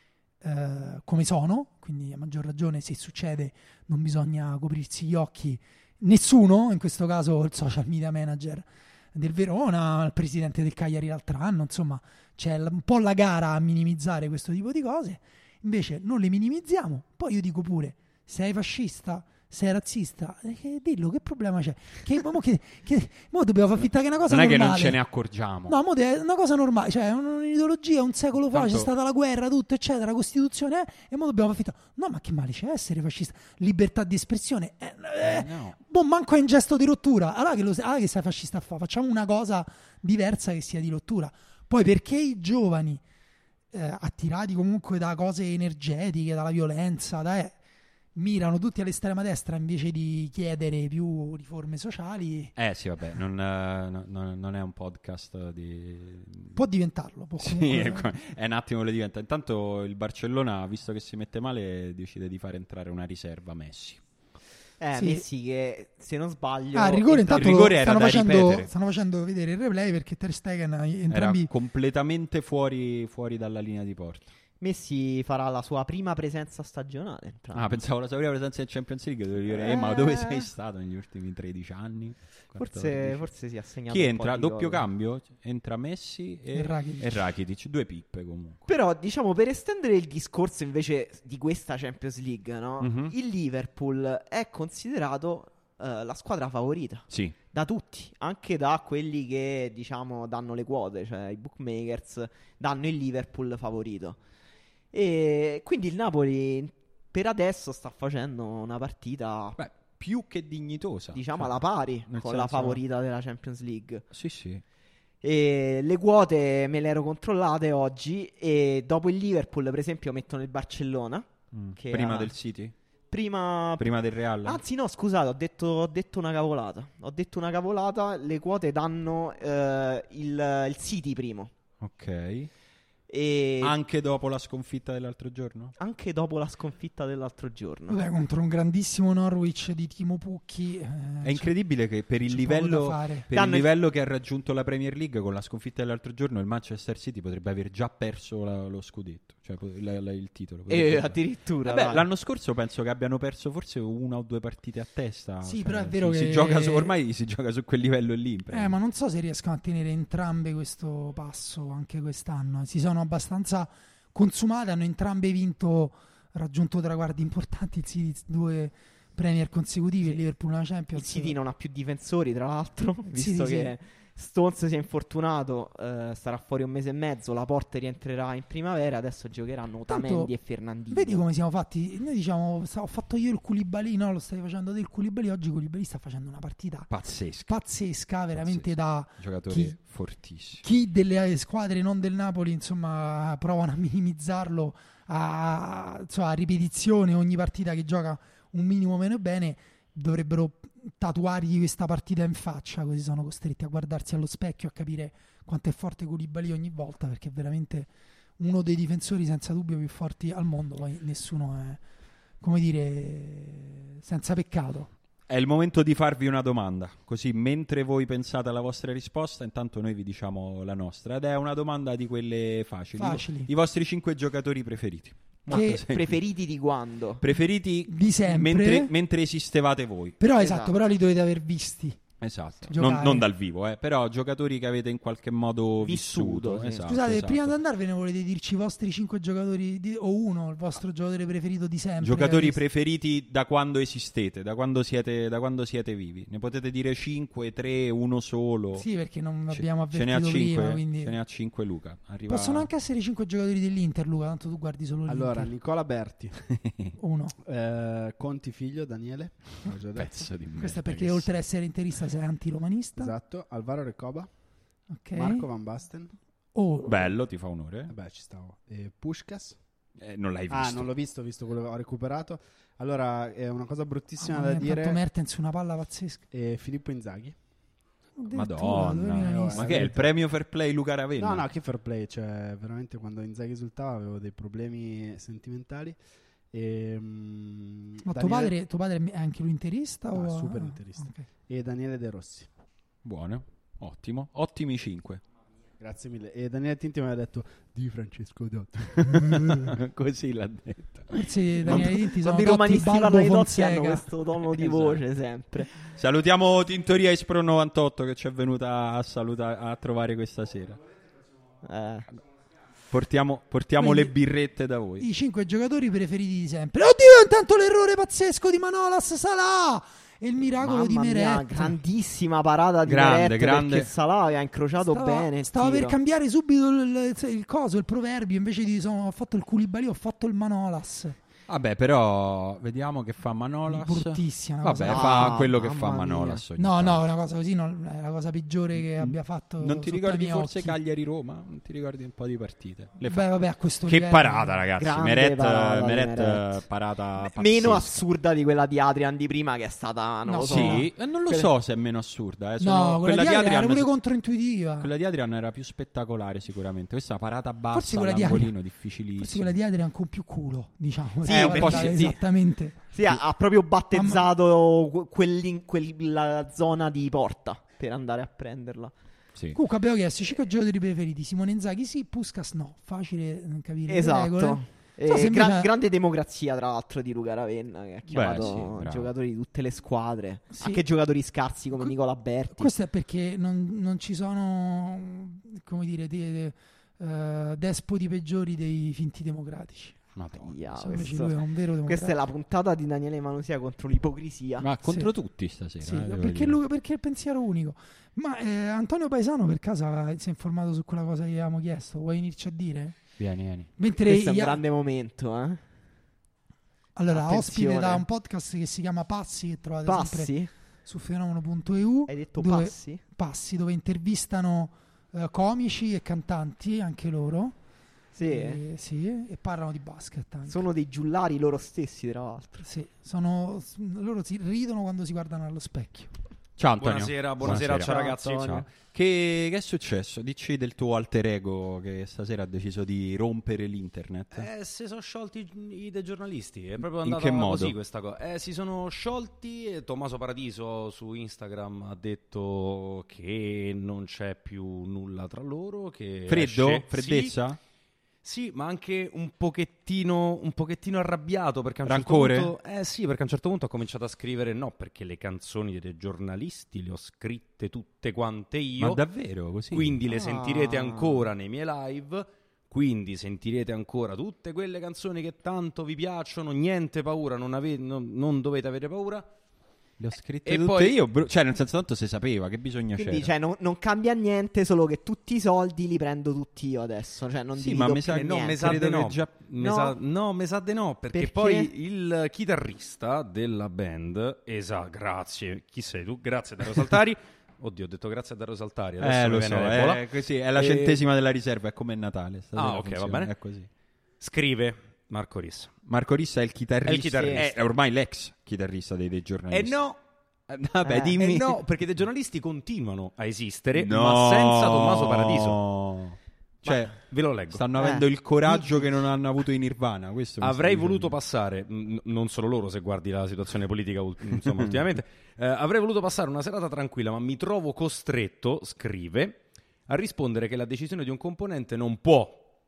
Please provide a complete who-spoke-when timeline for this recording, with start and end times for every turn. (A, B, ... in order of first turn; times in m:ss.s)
0:00.4-0:25.0 A
0:24.3-0:25.8 B
0:25.7-0:43.0 A
0:28.5-0:28.9 B
0:35.2-0:35.8 B
0:43.7-0:47.6 A
0:48.2-0:52.5 A
0:52.6-0:56.6 B
0:56.6-0:58.1 A
0:57.4-1:04.0 B
1:04.8-1:07.7 C
1:05.0-1:05.2 A
1:06.7-1:11.5 A
1:07.4-1:08.7 B
1:11.1-1:14.3 B
1:14.6-1:17.8 C
1:17.5-1:23.3 B
1:19.5-1:20.5 C
1:22.6-1:24.8 C
1:23.9-1:28.6 B
1:26.5-1:27.2 A
1:28.7-1:44.2 C
1:32.8-1:33.1 B
1:37.1-1:37.4 B
1:44.9-1:49.6 C
1:49.6-1:52.8 B
1:51.1-1:54.0 C
1:54.1-1:54.6 B
1:55.2-2:02.3 C
2:01.5-2:02.7 B
2:03.1-2:03.9 C
2:03.8-2:04.6 B
2:04.4-2:11.5 C
2:11.8-2:12.5 B
2:13.1-2:13.8 C
2:13.6-2:15.7 B
2:15.8-2:18.0 C
2:17.9-2:21.5 A
2:21.2-2:38.8 B
2:22.3-2:23.3 A
2:23.3-2:23.7 C
2:30.7-2:32.1 C
2:35.4-2:36.9 A
2:38.5-2:51.4 A
2:51.0-3:01.2 C
2:53.1-2:53.7 A
2:59.9-3:00.3 A
3:00.9-3:06.9 A
3:06.9-3:07.6 B
3:07.5-3:09.8 A
3:08.4-3:08.7 B
3:09.2-3:10.7 B
3:10.6-3:31.8 A
3:32.4-3:34.9 A
3:35.3-3:46.2 B
3:43.0-3:43.5 A
3:45.5-3:47.2 C
3:45.5-3:45.8 A
3:47.2-3:50.2 B
3:47.9-3:48.9 A
3:50.2-3:52.0 A
3:50.4-3:50.8 C
3:52.2-3:57.6 B
3:52.7-3:53.3 A
3:55.8-3:56.8 C
3:56.9-4:02.6 A
4:02.0-4:08.9 B
4:08.8-4:11.2 A
4:09.5-4:12.7 B
4:12.3-4:15.5 A
4:15.1-4:16.4 D
4:16.5-4:17.0 B
4:17.0-4:17.4 A
4:17.4-4:20.3 D
4:19.9-4:21.3 B
4:20.6-4:23.1 A
4:23.0-4:24.3 D
4:24.9-4:25.5 A
4:25.2-4:26.2 D
4:26.6-4:27.1 A
4:26.9-4:27.9 B
4:27.9-4:29.6 D
4:30.0-4:30.9 B
4:30.5-4:35.0 D
4:34.2-4:36.2 A
4:36.3-4:37.4 D
4:38.2-4:39.9 A
4:38.3-4:41.5 B
4:39.1-4:40.1 D
4:41.2-4:46.0 D
4:46.5-4:48.5 D
4:48.0-4:51.2 A
4:50.1-4:52.5 D
4:53.0-4:55.2 B
4:55.8-4:59.7 D
4:59.0-5:01.9 B
5:01.1-5:04.1 A
5:02.0-5:05.7 C
5:04.6-5:05.0 B
5:05.9-5:10.8 B
5:11.6-5:12.1 C
5:12.9-5:15.1 B
5:13.8-5:14.1 A
5:15.0-5:21.8 A
5:20.6-5:26.0 C
5:22.9-5:23.9 B
5:24.8-5:31.2 A
5:31.5-5:37.0 B
5:33.7-5:35.4 A
5:34.9-5:36.4 C
5:36.6-5:40.8 A
5:38.8-5:43.3 B
5:43.1-5:44.6 A
5:43.8-5:48.0 B
5:44.8-5:46.6 C
5:47.2-5:51.5 C
5:50.2-5:50.9 A
5:50.5-5:53.9 B
5:52.6-5:54.9 A
5:54.8-5:59.5 B
5:57.7-5:58.6 A
5:59.2-6:02.8 A
6:01.2-6:02.1 B
6:01.2-6:02.2 C
6:02.8-6:08.9 C
6:03.9-6:04.2 A
6:09.5-6:15.7 A
6:13.9-6:22.7 C
6:18.1-6:19.1 B
6:20.5-6:20.8 A
6:22.5-6:30.0 A
6:30.2-6:31.0 B
6:30.4-6:34.7 C
6:30.8-6:32.1 A
6:34.6-6:36.6 B
6:34.8-6:35.1 A
6:35.8-6:43.0 A
6:43.2-6:43.7 B
6:43.8-6:44.6 A
6:44.0-6:45.6 C
6:47.0-6:50.3 A
6:47.1-6:48.0 C
6:49.8-6:50.5 C
6:50.9-6:57.6 A
6:52.1-6:53.0 C
6:58.1-6:58.6 C
6:58.2-7:00.6 A
7:00.5-7:02.7 C
7:02.6-7:06.1 A
7:06.6-7:14.5 B
7:06.8-7:08.6 E
7:07.4-7:08.6 C
7:14.3-7:27.4 E
7:17.0-7:17.8 B
7:26.3-7:27.6 B
7:28.2-7:39.0 E
7:31.8-7:32.5 B
7:38.8-7:40.0 B
7:39.7-7:49.3 E
7:40.1-7:41.3 C
7:50.0-7:53.3 B
7:50.4-7:51.0 E
7:53.0-7:58.8 C
7:57.6-7:59.4 B
7:58.1-8:11.0 E
7:59.6-8:00.0 C
8:01.1-8:01.7 C
8:09.0-8:13.7 B
8:12.6-8:13.3 E
8:14.2-8:15.7 E
8:15.8-8:19.8 B
8:16.8-8:17.6 E
8:19.5-8:20.0 E
8:20.5-8:21.6 B
8:20.9-8:21.2 C
8:21.2-8:25.6 E
8:23.8-8:27.0 B
8:27.0-8:27.6 E
8:27.5-8:31.1 B
8:27.8-8:28.8 C
8:30.4-8:42.4 E